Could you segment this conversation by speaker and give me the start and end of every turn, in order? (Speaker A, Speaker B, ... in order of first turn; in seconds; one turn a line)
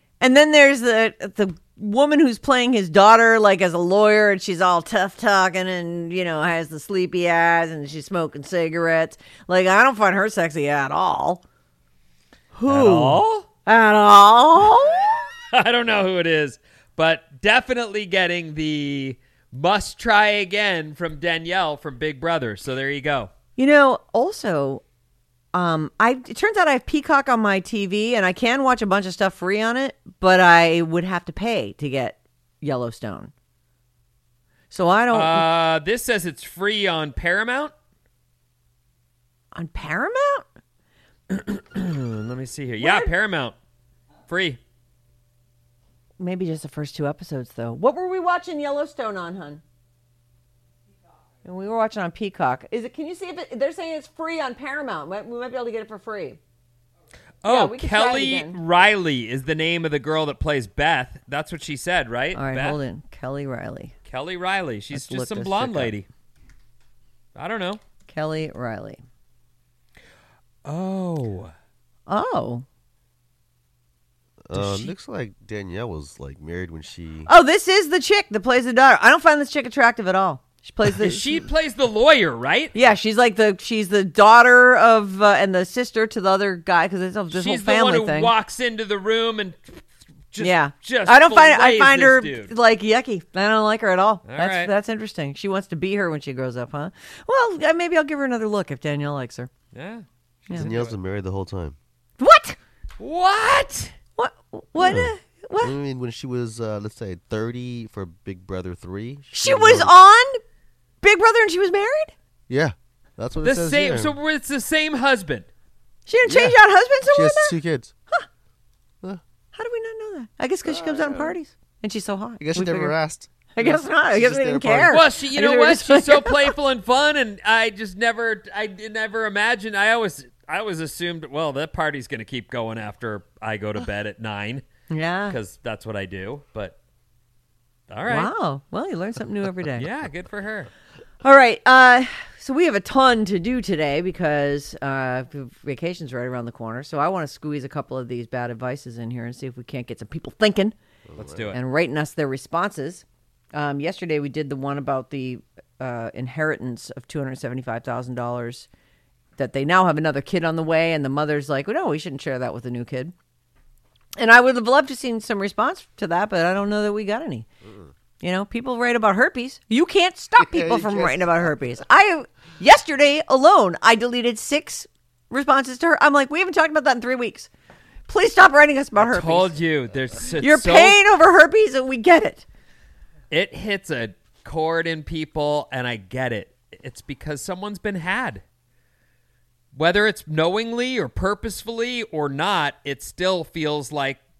Speaker A: 0.2-11.4
Speaker A: 12.5-15.2
Speaker B: 12.7-13.5
Speaker B: 15.5-23.3
Speaker A: 23.6-24.8
Speaker A: 25.5-33.3
Speaker A: 34.7-35.5
Speaker B: 35.1-37.7
Speaker A: 39.5-40.5
Speaker B: 41.3-43.5
Speaker A: 42.8-43.1
Speaker B: 44.3-44.6
Speaker A: 46.2-49.6
Speaker A: 51.4-56.4
Speaker B: 57.4-62.8
Speaker A: 57.5-58.6
Speaker A: 62.3-63.9
Speaker B: 64.1-66.1
Speaker A: 64.9-66.0
Speaker B: 67.3-67.8
Speaker A: 68.1-69.0
Speaker B: 70.7-71.5
Speaker A: 72.1-72.7
Speaker C: 74.5-77.3
Speaker A: 74.5-74.9
Speaker A: 77.3-81.4
Speaker B: 80.9-82.7
Speaker A: 82.7-88.3
Speaker B: 87.3-92.5
Speaker A: 90.4-99.5
Speaker B: 94.2-94.7
Speaker B: 99.7-101.0
Speaker A: 100.5-100.7
Speaker C: 100.5-101.8
Speaker A: 102.2-102.6
Speaker B: 103.0-103.9
Speaker A: 104.2-105.8
Speaker C: 104.8-109.9
Speaker A: 109.3-110.4
Speaker A: 111.0-112.1
Speaker C: 112.5-114.1
Speaker B: 113.4-115.5
Speaker A: 116.1-117.5
Speaker C: 116.2-117.9
Speaker A: 119.5-123.0
Speaker C: 120.7-121.3
Speaker C: 122.4-125.0
Speaker A: 123.6-126.6
Speaker B: 124.9-134.6
Speaker A: 134.9-135.4
Speaker B: 135.3-136.8
Speaker B: 137.9-138.3
Speaker A: 138.1-139.9
Speaker B: 139.8-140.7
Speaker A: 141.2-150.8
Speaker C: 151.1-151.4
Speaker B: 151.2-151.6
Speaker A: 151.5-158.7
Speaker A: 159.4-163.1
Speaker A: 164.2-167.5
Speaker C: 167.6-167.9
Speaker A: 168.2-177.5
Speaker C: 170.4-171.5
Speaker A: 178.1-179.5
Speaker B: 179.0-181.0
Speaker A: 180.4-182.4
Speaker B: 183.3-188.4
Speaker B: 189.7-194.2